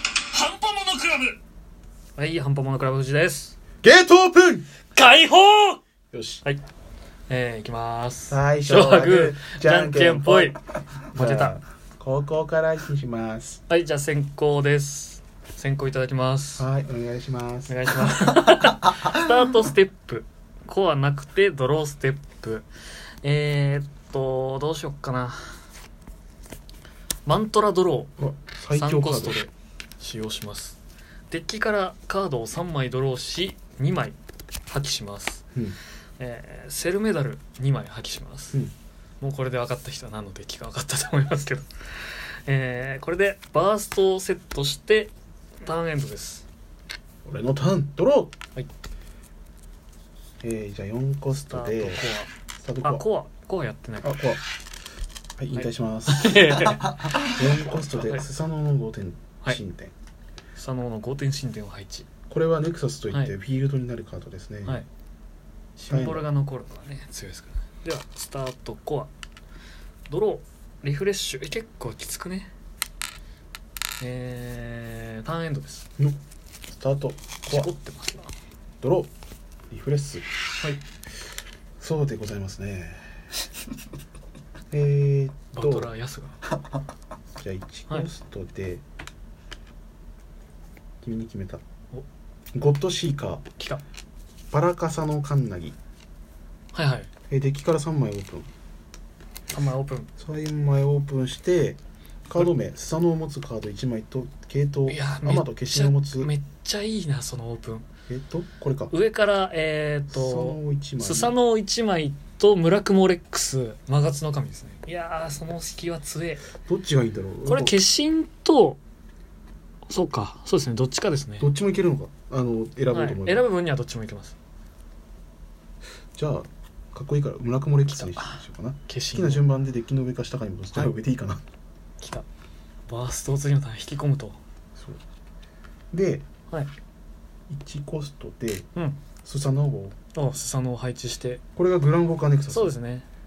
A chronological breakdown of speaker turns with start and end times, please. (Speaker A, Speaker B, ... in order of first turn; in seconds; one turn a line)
Speaker A: 0.3-1.4
Speaker A: 2.2-3.5
Speaker B: 3.8-4.6
Speaker A: 4.9-5.8
Speaker B: 6.1-6.4
Speaker A: 7.3-10.6
Speaker B: 8.3-10.6
Speaker B: 11.1-13.6
Speaker A: 11.1-11.6
Speaker A: 13.7-16.7
Speaker B: 16.6-18.1
Speaker A: 17.7-22.7
Speaker A: 23.2-25.5
Speaker A: 27.2-28.1
Speaker B: 28.2-29.4
Speaker A: 28.7-30.8
Speaker A: 31.3-34.2
Speaker A: 34.7-35.4
Speaker A: 36.2-38.6
Speaker A: 39.2-46.5
Speaker B: 47.2-48.3
Speaker B: 50.4-52.0
Speaker A: 51.5-52.3
Speaker B: 52.6-53.0
Speaker A: 52.8-54.2
Speaker B: 54.0-54.4
Speaker B: 55.4-59.9
Speaker A: 55.5-57.4
Speaker A: 57.9-58.2
Speaker A: 60.5-62.1
Speaker B: 62.3-64.8
Speaker B: 65.8-66.3
Speaker A: 65.9-69.1
Speaker A: 70.1-72.5
Speaker A: 74.0-75.9
Speaker B: 76.0-77.7
Speaker A: 77.5-78.3
Speaker B: 78.8-79.1
Speaker B: 79.7-80.2
Speaker B: 81.8-83.2
Speaker B: 84.7-85.9
Speaker A: 85.5-86.4
Speaker B: 87.4-88.8
Speaker B: 91.0-91.6
Speaker B: 92.5-93.4
Speaker B: 94.5-95.8
Speaker A: 96.7-97.1
Speaker B: 97.3-98.5
Speaker A: 99.5-100.1
Speaker B: 100.2-106.3
Speaker A: 104.9-107.9
Speaker B: 108.1-108.9
Speaker A: 108.9-116.4
Speaker B: 110.1-111.4
Speaker B: 116.6-117.8
Speaker A: 117.5-118.8
Speaker A: 119.9-121.5
Speaker B: 121.4-123.4
Speaker A: 122.9-124.3
Speaker B: 126.1-131.4
Speaker A: 127.9-129.4
Speaker A: 132.0-132.2
Speaker A: 132.9-134.4
Speaker B: 135.9-136.2
Speaker B: 137.5-138.7
Speaker A: 138.7-139.0
Speaker B: 139.2-139.9
Speaker A: 140.1-141.4
Speaker B: 141.6-142.7
Speaker A: 142.5-143.1